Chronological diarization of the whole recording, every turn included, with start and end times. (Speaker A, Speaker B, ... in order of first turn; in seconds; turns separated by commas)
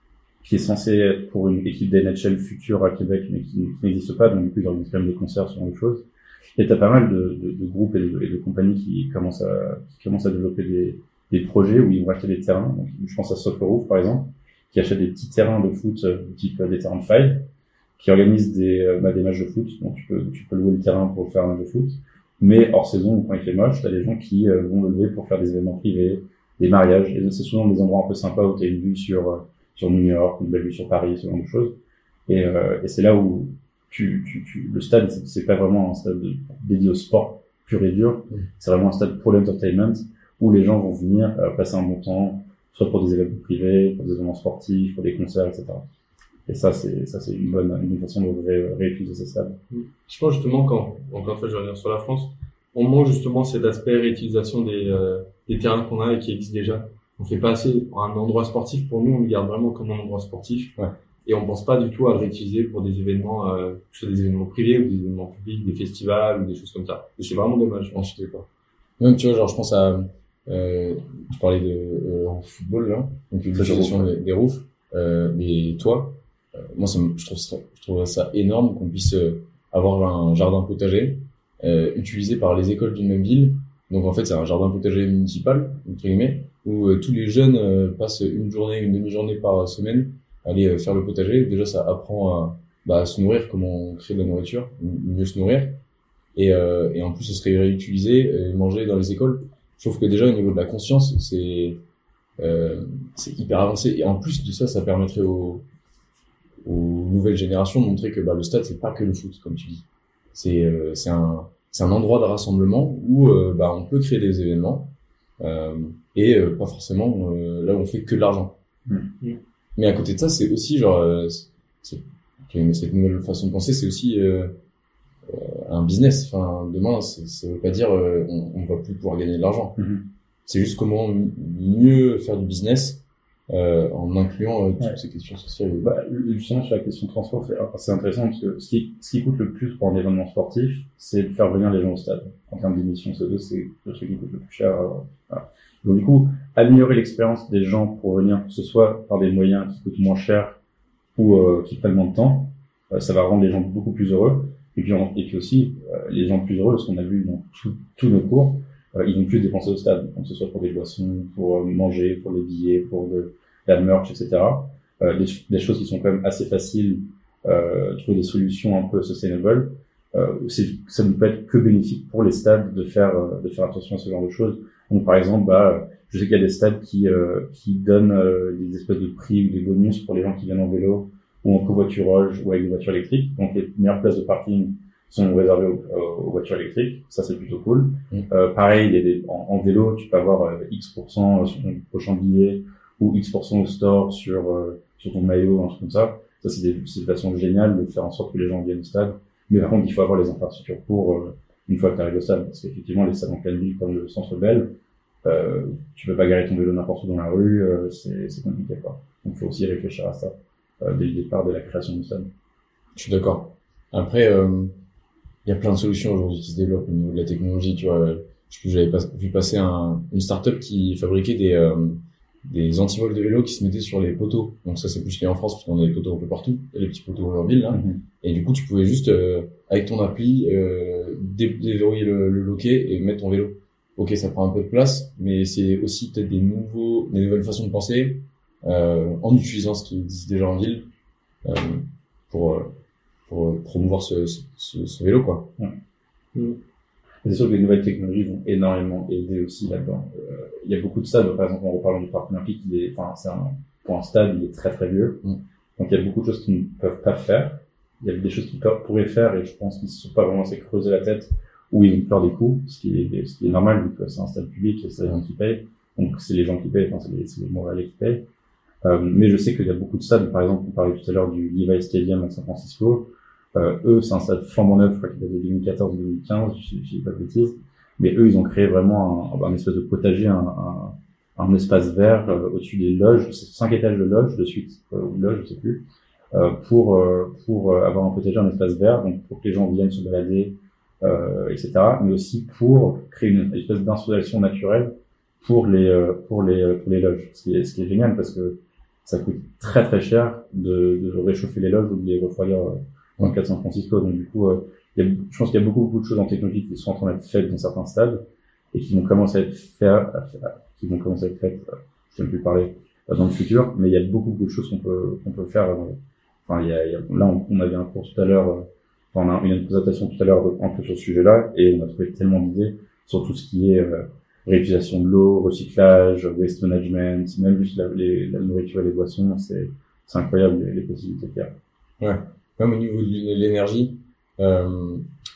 Speaker A: 0.4-31.8, Speaker A: 32.3-45.8, Speaker A: 46.5-49.6, Speaker B: 49.7-68.0, Speaker C: 67.9-68.5, Speaker C: 69.0-95.8, Speaker A: 73.5-74.1, Speaker C: 96.3-101.8, Speaker C: 102.4-105.6, Speaker C: 106.6-118.6, Speaker C: 119.8-124.6, Speaker C: 125.3-129.8, Speaker A: 129.8-130.0, Speaker C: 130.5-135.9, Speaker A: 135.8-150.6, Speaker A: 151.2-212.3, Speaker C: 213.0-214.7, Speaker C: 215.4-240.9, Speaker A: 227.7-228.0, Speaker C: 241.4-242.7, Speaker C: 243.3-245.5, Speaker A: 247.2-255.2, Speaker A: 255.8-268.3, Speaker A: 268.8-308.2, Speaker A: 308.7-331.5, Speaker C: 332.0-335.1